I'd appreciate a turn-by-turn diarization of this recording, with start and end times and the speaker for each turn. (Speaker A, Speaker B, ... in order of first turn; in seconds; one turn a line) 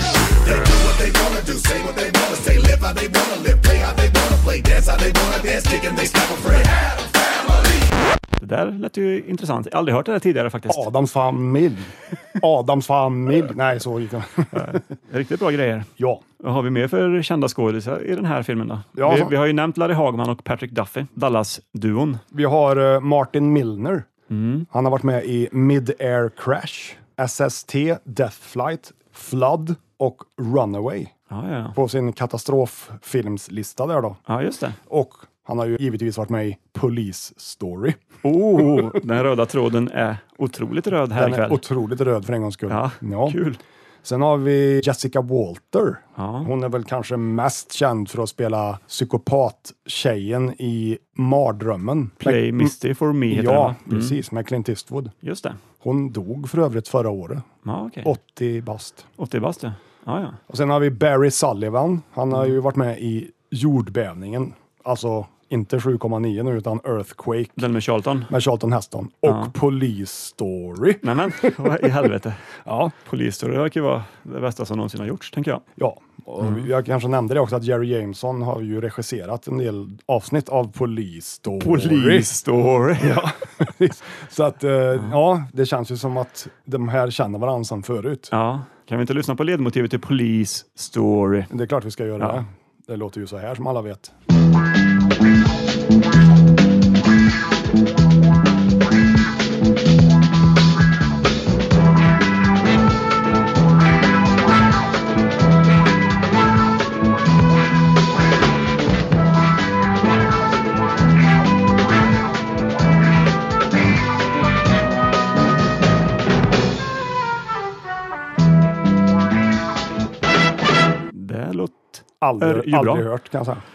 Speaker A: 0.7-7.1
Speaker B: 8.4-10.9
Speaker C: 10.7-14.8
Speaker B: 14.5-22.2
Speaker C: 19.0-19.3
Speaker C: 22.3-24.1
Speaker B: 24.3-24.7
Speaker C: 24.7-31.1
Speaker B: 31.3-31.8
Speaker C: 31.8-34.2
Speaker B: 34.3-34.8
Speaker C: 34.9-38.0
Speaker B: 38.2-41.6
Speaker C: 38.6-38.9
Speaker C: 41.2-43.4
Speaker B: 42.7-43.6
Speaker C: 44.0-52.7
Speaker B: 46.2-46.5
Speaker B: 52.2-54.2
Speaker C: 53.3-55.1
Speaker B: 55.2-55.6
Speaker C: 55.8-57.5
Speaker B: 57.6-58.1
Speaker C: 58.0-59.1
Speaker B: 59.2-60.4
Speaker C: 60.5-67.7
Speaker B: 67.6-68.3
Speaker C: 68.3-71.9
Speaker B: 69.3-69.5
Speaker B: 71.0-72.4
Speaker C: 72.7-72.9
Speaker B: 73.0-75.6
Speaker C: 75.8-82.3
Speaker B: 81.6-83.3
Speaker C: 83.0-88.3
Speaker B: 88.3-91.5
Speaker C: 91.5-94.1
Speaker B: 121.1-123.1
Speaker C: 122.2-123.6